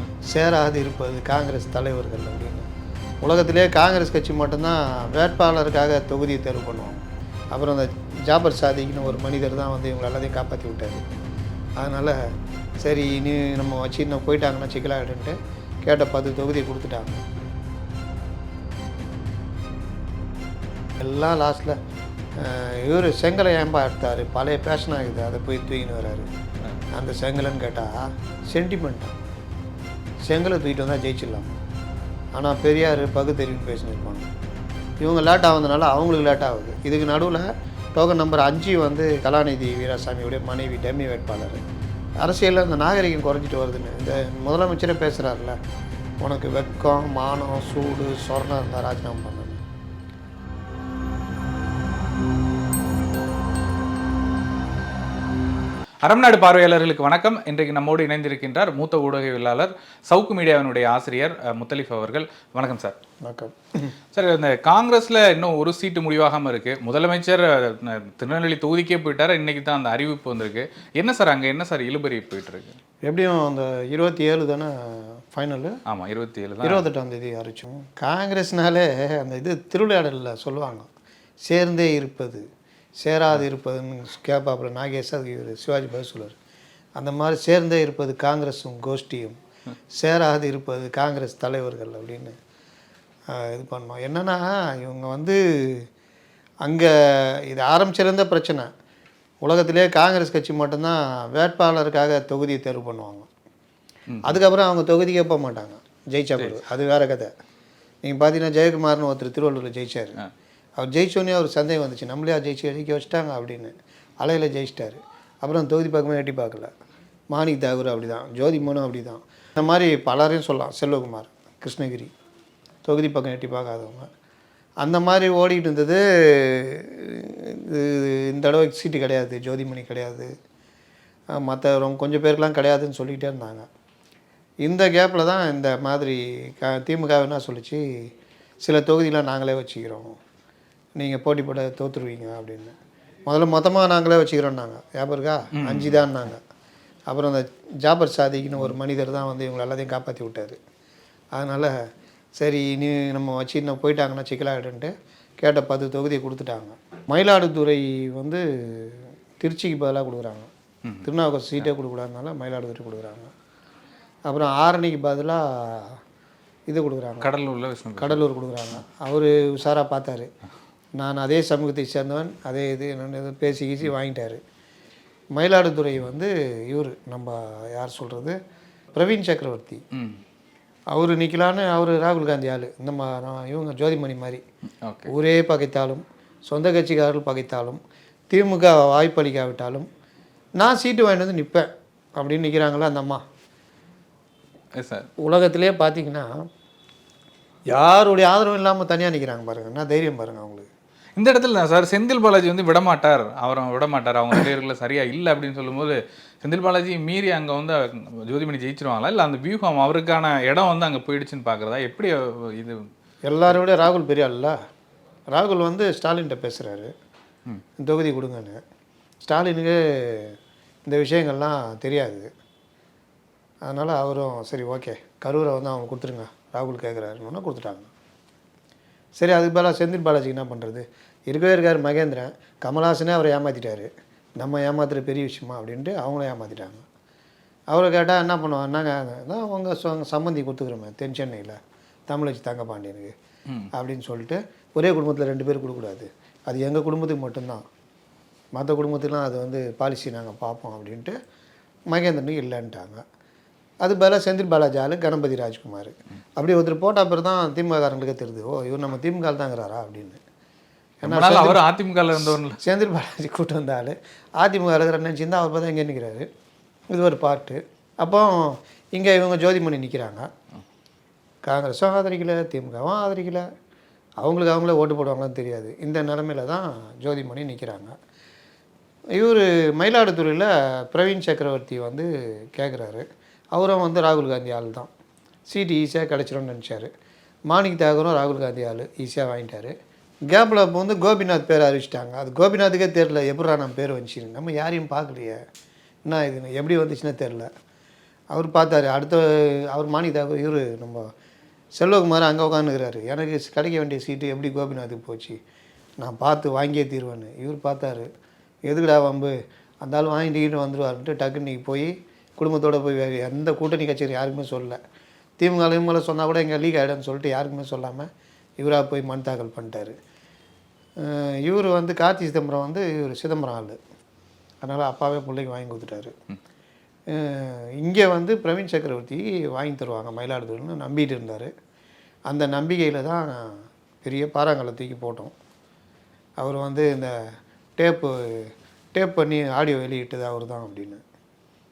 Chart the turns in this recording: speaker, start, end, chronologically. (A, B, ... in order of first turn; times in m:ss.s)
0:00.2-0:02.7 A
0:03.2-0:11.0 A
0:11.8-0:12.2 A
0:12.8-0:17.2 A
0:21.0-0:21.8 A
0:22.4-0:26.3 A
0:26.9-0:29.2 A
0:30.2-0:31.6 A
0:32.3-0:34.3 A
0:35.0-0:41.6 A
0:42.2-0:45.6 A
0:46.2-0:49.6 A
0:56.0-1:03.0 B
1:03.2-1:03.9 A
1:04.1-1:12.8 B
1:13.0-1:15.8 A
1:15.9-1:16.8 B
1:16.6-1:20.9 A
1:21.4-1:22.4 A
1:23.0-1:26.4 A
1:27.0-1:29.4 A
1:29.9-1:32.4 A
1:33.3-1:35.9 A
1:36.6-1:38.7 A
1:39.4-1:43.3 A
1:44.1-1:44.4 B
1:44.2-1:47.3 A
1:48.0-1:50.2 A
1:50.8-1:56.7 A
1:57.3-2:02.1 A
2:02.8-2:04.1 A
2:04.8-2:10.3 A
2:11.3-2:13.7 A
2:14.6-2:18.1 A
2:18.6-2:20.2 A
2:21.0-2:22.7 A
2:23.3-2:26.4 A
2:25.6-2:26.0 B
2:27.1-2:30.6 A
2:31.3-2:31.8 A
2:32.4-2:40.5 A
2:41.0-2:43.3 A
2:44.2-2:46.0 A
2:46.7-2:47.3 A
2:47.2-2:48.2 B
2:48.0-2:50.3 A
2:51.0-2:54.4 A
2:55.3-2:58.4 A
2:58.9-2:59.8 A
2:59.9-3:00.2 B
3:00.9-3:04.4 A
3:04.8-3:05.1 B
3:05.1-3:07.8 A
3:08.3-3:09.9 A
3:10.6-3:13.2 A
3:14.7-3:15.1 B
3:15.2-3:16.4 A
3:17.7-3:20.7 A
3:21.2-3:32.8 B
3:33.2-3:34.6 A
3:35.3-3:36.9 A
3:37.8-3:38.6 A
3:39.2-3:42.3 A
3:43.6-3:47.9 A
3:49.2-3:56.8 A
3:57.7-4:03.1 A
4:03.7-4:07.6 A
4:08.5-4:11.2 A
4:11.9-4:13.0 A
4:13.8-4:20.2 A
4:21.0-4:21.6 A
4:21.0-4:22.6 B
4:22.2-4:26.3 A
4:26.9-4:30.3 A
4:31.4-4:33.5 A
4:34.2-4:37.9 A
4:39.1-4:44.9 A
4:45.5-4:46.9 A
4:47.5-4:49.7 A
4:50.3-4:55.4 A
4:56.0-4:57.5 A
4:58.3-5:01.1 A
5:01.8-5:05.4 A
5:06.0-5:08.1 A
5:08.6-5:14.8 A
5:15.4-5:20.0 A
5:21.0-5:23.8 A
5:24.6-5:26.1 A
5:27.1-5:31.5 A
5:32.3-5:35.3 A
5:36.4-5:41.0 A